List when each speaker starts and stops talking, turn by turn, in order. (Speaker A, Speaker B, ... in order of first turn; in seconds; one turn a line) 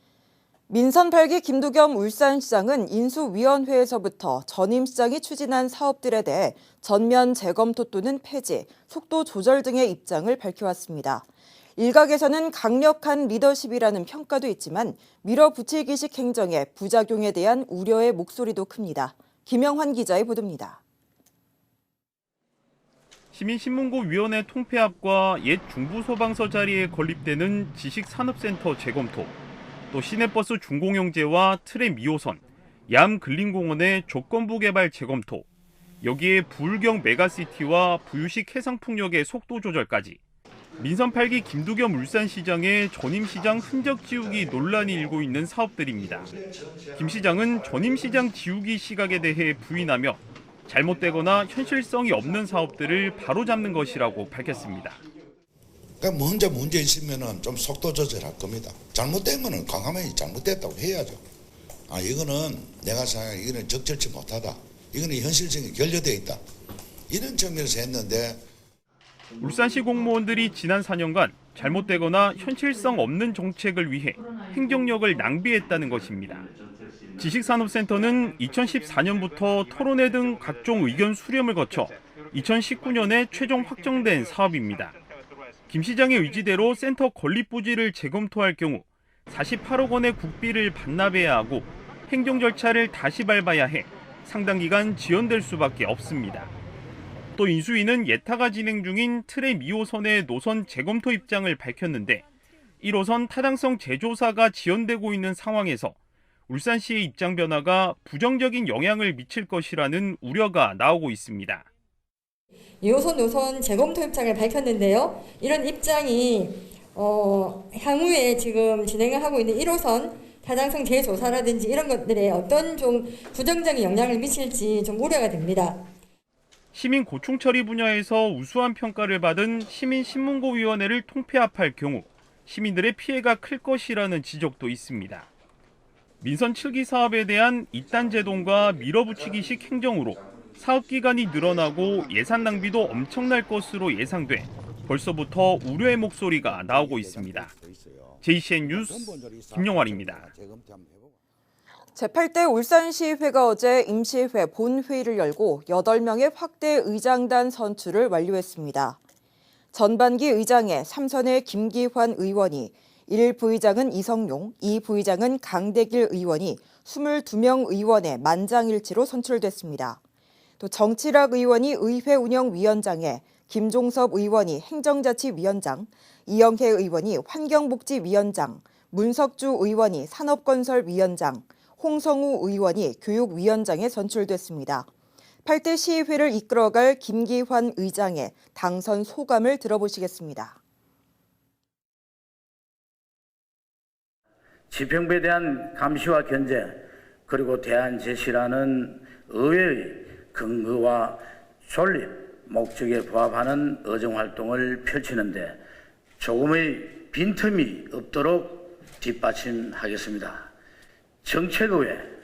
Speaker A: 0.7-11.2
Speaker A: 11.8-20.8
Speaker B: 23.3-29.3
Speaker B: 29.9-35.5
Speaker B: 36.0-40.2
Speaker B: 40.8-46.3
Speaker C: 46.5-47.3
Speaker B: 46.9-55.0
Speaker C: 56.0-61.2
Speaker C: 61.9-66.4
Speaker C: 67.1-68.4
Speaker B: 69.4-76.5
Speaker B: 77.2-85.0
Speaker B: 85.7-96.5
Speaker B: 97.3-102.2
Speaker B: 102.8-106.0
Speaker B: 106.5-111.7
Speaker D: 112.8-125.8
Speaker B: 126.7-135.3
Speaker B: 136.2-147.5
Speaker C: 146.4-151.1
Speaker B: 148.2-150.3
Speaker A: 151.9-159.0
Speaker A: 159.7-170.0
Speaker A: 170.6-184.9
Speaker A: 185.4-190.6
Speaker E: 194.7-205.6
Speaker E: 206.2-210.4
Speaker E: 211.2-212.0